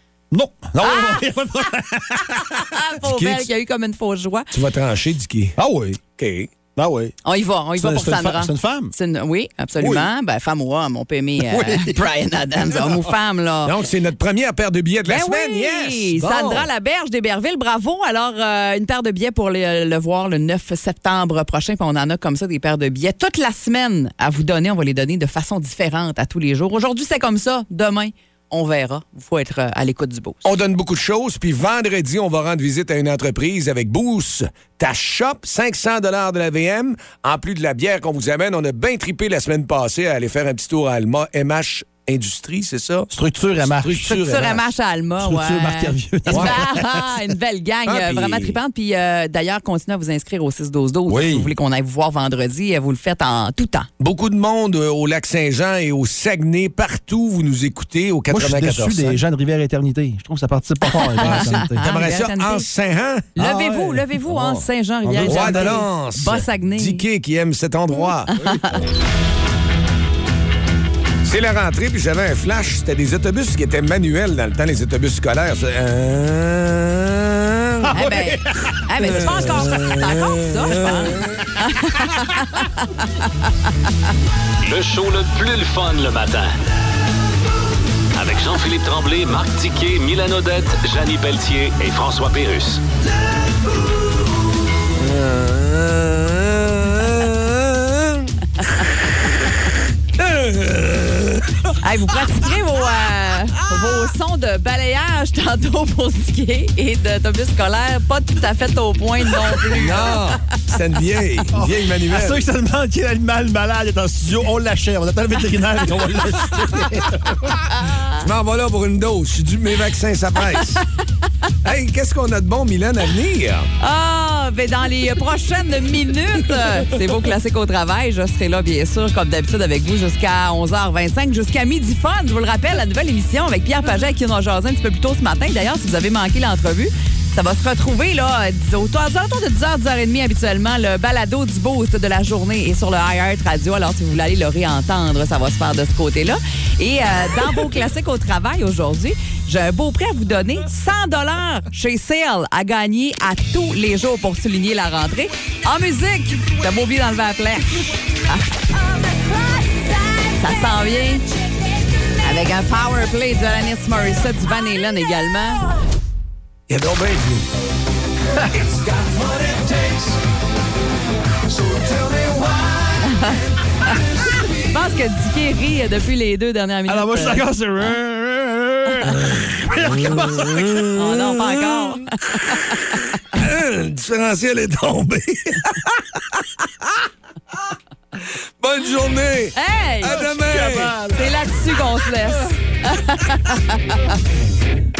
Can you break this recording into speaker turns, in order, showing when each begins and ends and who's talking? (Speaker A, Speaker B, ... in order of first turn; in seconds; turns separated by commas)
Speaker A: 0.3-2.6, Speaker B: 0.8-1.2, Speaker B: 2.7-4.5, Speaker C: 3.0-3.5, Speaker C: 4.5-5.6, Speaker A: 5.6-6.0, Speaker C: 6.2-6.5, Speaker A: 6.8-7.2, Speaker B: 7.2-13.7, Speaker A: 7.8-8.9, Speaker A: 9.8-10.1, Speaker A: 11.4-12.0, Speaker C: 13.6-16.6, Speaker B: 15.1-30.5, Speaker C: 30.4-44.6, Speaker A: 43.1-44.2, Speaker B: 44.0-53.9, Speaker A: 45.2-47.1, Speaker C: 46.3-46.6, Speaker C: 47.8-48.5, Speaker A: 51.1-51.5, Speaker C: 54.0-59.2, Speaker A: 58.3-61.8, Speaker B: 61.0-62.6, Speaker C: 61.2-63.4, Speaker B: 63.4-67.0, Speaker A: 63.4-64.1, Speaker C: 64.3-64.6, Speaker A: 65.0-65.8, Speaker C: 65.2-68.3, Speaker B: 68.3-68.8, Speaker C: 71.2-78.0, Speaker A: 77.8-79.7, Speaker B: 77.9-83.5, Speaker C: 79.0-81.2, Speaker D: 84.6-86.5, Speaker D: 88.1-92.8, Speaker C: 94.9-98.9, Speaker C: 100.2-101.6, Speaker B: 101.8-110.2, Speaker C: 109.7-112.4, Speaker A: 111.5-117.5, Speaker C: 118.1-120.8, Speaker C: 121.6-123.7, Speaker B: 123.8-158.9, Speaker B: 160.2-161.3, Speaker B: 162.2-165.7, Speaker C: 166.7-167.5, Speaker C: 168.6-169.9, Speaker C: 171.6-172.7, Speaker B: 173.0-177.4, Speaker A: 176.9-180.7, Speaker C: 179.1-187.1, Speaker B: 180.9-183.0, Speaker C: 188.6-191.3, Speaker B: 189.5-190.2, Speaker A: 190.1-191.2, Speaker B: 191.1-194.2